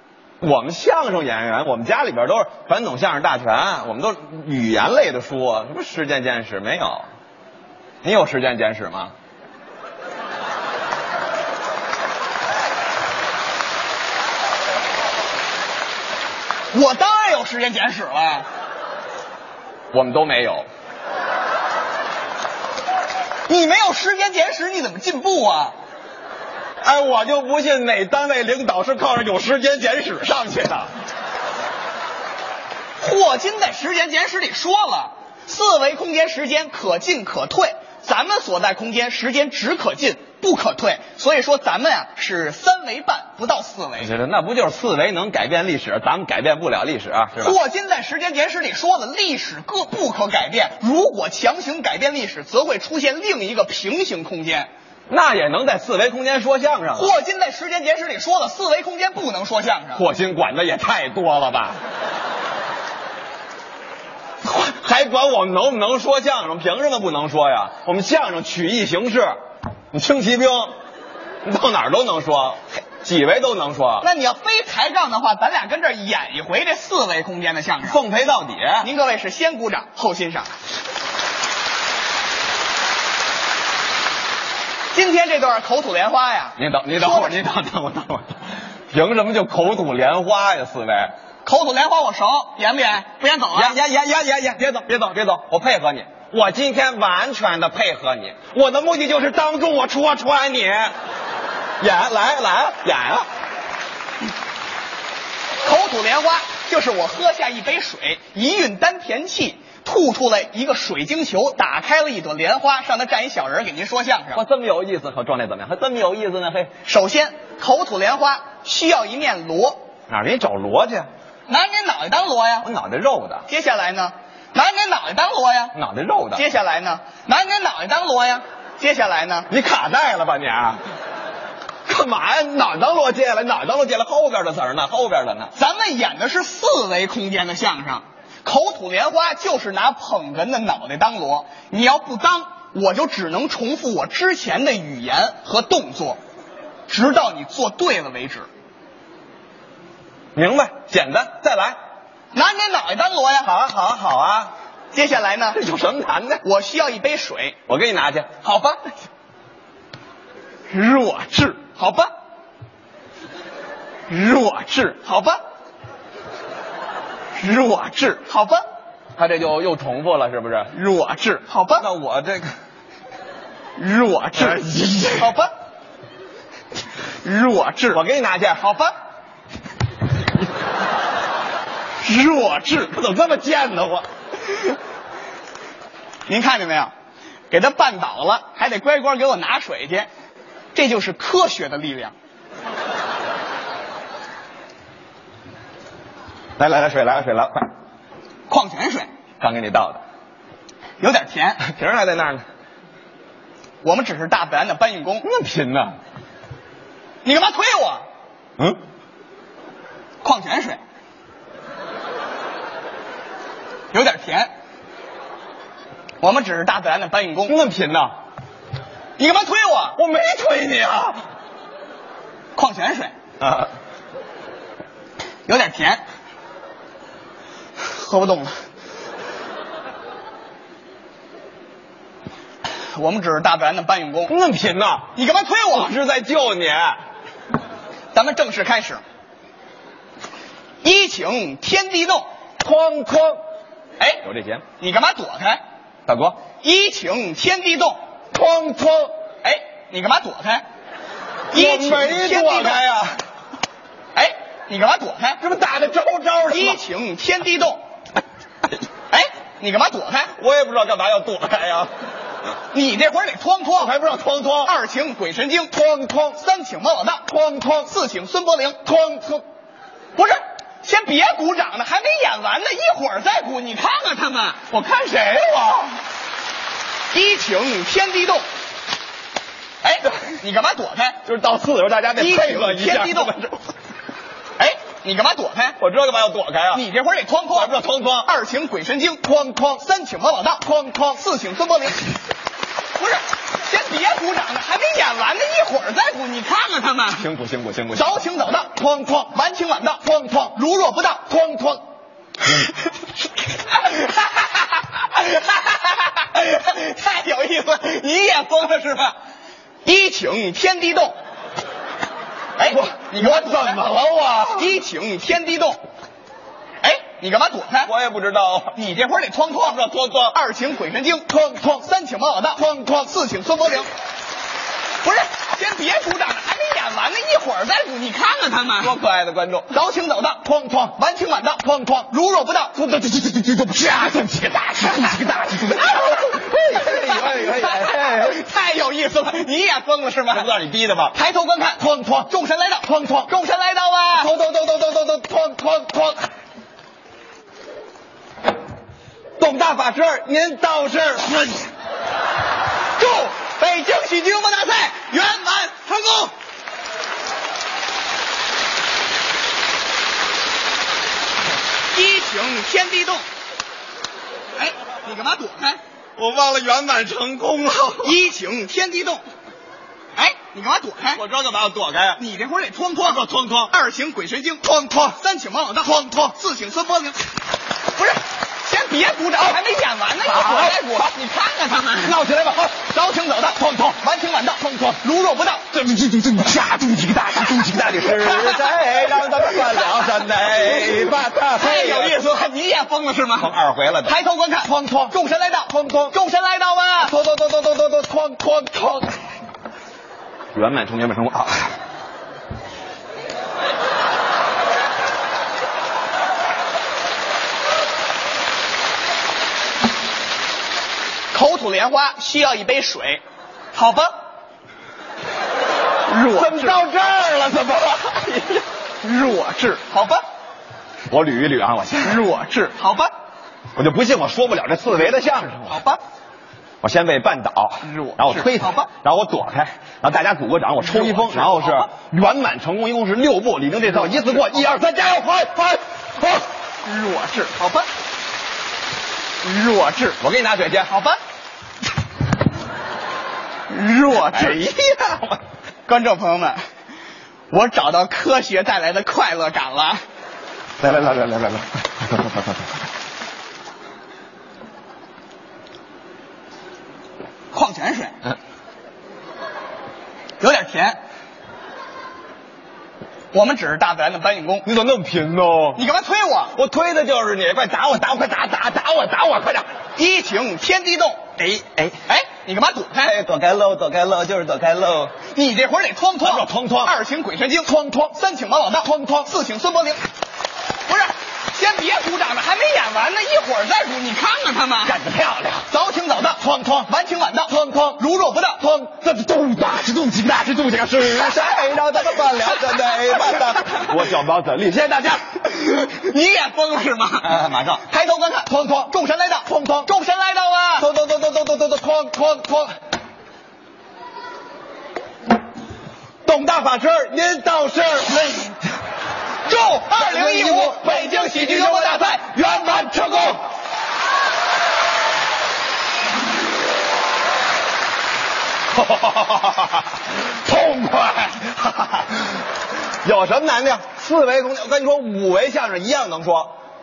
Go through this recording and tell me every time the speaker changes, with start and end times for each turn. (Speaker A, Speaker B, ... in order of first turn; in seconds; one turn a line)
Speaker A: 0.4-7.1
Speaker A: 8.0-9.1
Speaker B: 16.7-18.5
Speaker A: 19.9-20.7
Speaker B: 23.5-25.8
Speaker A: 26.8-30.9
Speaker B: 33.0-44.1
Speaker A: 44.0-47.6
Speaker B: 47.4-54.7
Speaker A: 55.1-57.2
Speaker B: 57.0-60.0
Speaker A: 60.0-61.8
Speaker A: 64.4-69.4
Speaker A: 69.9-70.7
Speaker A: 71.4-74.1
Speaker B: 74.0-78.0
Speaker A: 77.8-78.9
Speaker B: 78.8-80.5
Speaker B: 84.9-87.4
Speaker A: 86.6-88.4
Speaker A: 88.9-91.1
Speaker B: 91.4-93.8
Speaker A: 93.5-100.9
Speaker A: 101.8-103.3
Speaker B: 105.6-114.4
Speaker A: 114.3-116.7
Speaker B: 116.8-119.8
Speaker A: 120.1-121.1
Speaker B: 121.5-122.7
Speaker A: 122.6-123.5
Speaker B: 123.5-125.8
Speaker A: 125.8-126.4
Speaker B: 126.3-129.5
Speaker A: 129.5-130.8
Speaker A: 131.9-135.5
Speaker B: 135.6-146.2
Speaker B: 146.9-148.5
Speaker A: 150.4-151.8
Speaker B: 152.3-153.5
Speaker A: 153.4-154.5
Speaker B: 154.9-155.6
Speaker A: 155.5-156.4
Speaker B: 156.4-157.6
Speaker A: 157.7-158.3
Speaker B: 158.4-158.9
Speaker B: 160.7-162.1
Speaker B: 164.1-165.4
Speaker B: 167.4-168.6
Speaker A: 169.2-170.7
Speaker B: 170.7-171.8
Speaker A: 171.8-172.5
Speaker B: 173.8-174.6
Speaker A: 174.4-175.3
Speaker B: 175.2-175.5
Speaker B: 177.2-178.0
Speaker A: 177.9-178.6
Speaker B: 178.6-178.9
Speaker B: 182.0-182.9
Speaker A: 182.7-184.1
Speaker B: 186.3-186.9
Speaker B: 187.5-190.1
Speaker B: 190.7-192.1
Speaker A: 196.6-197.7
Speaker B: 198.5-199.1
Speaker A: 199.4-200.0
Speaker B: 201.0-201.6
Speaker A: 201.6-202.4
Speaker B: 203.8-205.3
Speaker A: 205.2-206.0
Speaker B: 207.2-208.0
Speaker B: 210.2-210.8
Speaker B: 213.9-214.5
Speaker B: 216.2-217.6
Speaker A: 217.5-218.1
Speaker B: 219.2-220.0
Speaker A: 220.0-221.2
Speaker B: 222.6-223.1
Speaker A: 223.4-223.7
Speaker B: 225.5-226.0
Speaker B: 227.8-228.6
Speaker B: 232.9-234.3
Speaker A: 234.3-235.1
Speaker B: 235.2-235.9
Speaker A: 235.7-237.0
Speaker B: 238.1-239.0
Speaker B: 240.8-242.2
Speaker A: 242.6-243.4
Speaker A: 244.2-244.6
Speaker B: 244.8-245.6
Speaker A: 246.1-246.4
Speaker B: 246.6-248.0
Speaker A: 248.3-249.1
Speaker B: 249.4-250.7
Speaker B: 251.5-252.8
Speaker A: 251.5-253.2
Speaker B: 254.2-255.4
Speaker A: 255.4-256.8
Speaker B: 256.5-257.8
Speaker B: 259.1-260.3
Speaker A: 260.4-261.9
Speaker B: 262.7-263.9
Speaker A: 263.8-264.7
Speaker B: 264.6-265.7
Speaker A: 265.7-266.4
Speaker B: 266.4-267.2
Speaker A: 267.3-267.9
Speaker B: 267.9-268.8
Speaker A: 268.9-269.4
Speaker B: 270.2-274.6
Speaker A: 274.7-276.0
Speaker B: 277.1-278.5
Speaker B: 279.8-281.2
Speaker A: 281.2-283.6
Speaker B: 282.2-283.3
Speaker B: 284.6-285.8
Speaker A: 285.8-286.8
Speaker B: 286.7-289.2
Speaker A: 287.5-288.3
Speaker A: 289.2-289.8
Speaker B: 289.8-292.2
Speaker A: 290.6-291.2
Speaker B: 293.0-297.2
Speaker A: 297.1-298.2
Speaker B: 297.9-301.3
Speaker A: 298.8-299.3
Speaker A: 300.0-300.5
Speaker A: 301.3-301.8
Speaker B: 303.7-309.1
Speaker B: 309.8-311.2
Speaker B: 312.6-313.9
Speaker A: 312.7-314.7
Speaker B: 314.6-315.8
Speaker B: 316.8-317.9
Speaker A: 317.8-318.8
Speaker B: 318.8-319.8
Speaker A: 319.6-320.4
Speaker B: 320.3-323.9
Speaker A: 321.3-321.8
Speaker A: 322.6-323.0
Speaker B: 325.0-328.9
Speaker A: 328.8-329.7
Speaker B: 329.7-332.8
Speaker A: 330.4-330.9
Speaker A: 331.6-332.1
Speaker A: 332.8-338.4
Speaker B: 335.8-340.5
Speaker A: 340.3-341.2
Speaker B: 341.1-344.3
Speaker A: 341.8-342.3
Speaker A: 342.8-343.3
Speaker A: 344.2-346.3
Speaker A: 349.4-351.7
Speaker B: 353.0-356.3
Speaker B: 361.9-363.2
Speaker B: 364.6-365.8
Speaker A: 366.2-368.2
Speaker B: 368.0-369.2
Speaker B: 370.1-371.2
Speaker A: 371.1-372.2
Speaker B: 372.2-377.3
Speaker A: 373.0-373.7
Speaker A: 374.6-375.2
Speaker A: 375.9-376.3
Speaker B: 377.9-382.2
Speaker A: 380.2-381.1
Speaker A: 382.0-382.9
Speaker B: 382.9-385.7
Speaker A: 385.7-392.2
Speaker B: 388.0-388.7
Speaker B: 389.4-390.0
Speaker B: 391.6-393.5
Speaker A: 393.4-395.1
Speaker B: 394.1-397.2
Speaker A: 395.7-396.1
Speaker A: 397.0-399.1
Speaker A: 400.5-401.8
Speaker B: 411.3-413.2
Speaker B: 413.7-414.1
Speaker B: 416.1-416.9
Speaker A: 416.3-418.6
Speaker B: 419.0-420.2
Speaker A: 421.1-422.2
Speaker B: 422.0-423.1
Speaker A: 423.8-425.8
Speaker B: 425.7-426.0
Speaker A: 426.8-436.4
Speaker B: 427.8-428.9
Speaker B: 430.9-431.9
Speaker B: 436.8-437.9
Speaker B: 439.4-440.2
Speaker A: 440.2-440.9
Speaker B: 440.9-441.2
Speaker B: 443.7-444.6
Speaker A: 444.2-445.4
Speaker B: 445.9-446.6
Speaker B: 447.5-450.0
Speaker A: 450.8-451.8
Speaker B: 457.5-458.2
Speaker B: 460.4-461.0
Speaker B: 463.3-464.7
Speaker A: 464.6-465.8
Speaker B: 465.8-466.6
Speaker A: 466.5-469.7
Speaker B: 470.0-471.2
Speaker A: 471.4-472.0
Speaker B: 472.1-473.1
Speaker A: 473.0-475.2
Speaker B: 475.3-480.0
Speaker A: 476.2-476.9
Speaker A: 477.7-478.1
Speaker A: 478.8-479.3
Speaker B: 480.9-485.0
Speaker A: 484.9-485.7
Speaker B: 485.7-488.6
Speaker A: 486.4-486.9
Speaker A: 487.5-488.0
Speaker A: 488.6-495.3
Speaker B: 492.9-493.8
Speaker B: 495.4-497.3
Speaker A: 497.2-497.9
Speaker B: 497.9-500.9
Speaker A: 498.5-498.9
Speaker A: 499.5-499.9
Speaker A: 500.8-502.7
Speaker A: 506.2-508.6
Speaker B: 509.5-512.2
Speaker A: 509.9-513.4
Speaker A: 518.7-522.4
Speaker A: 523.0-526.5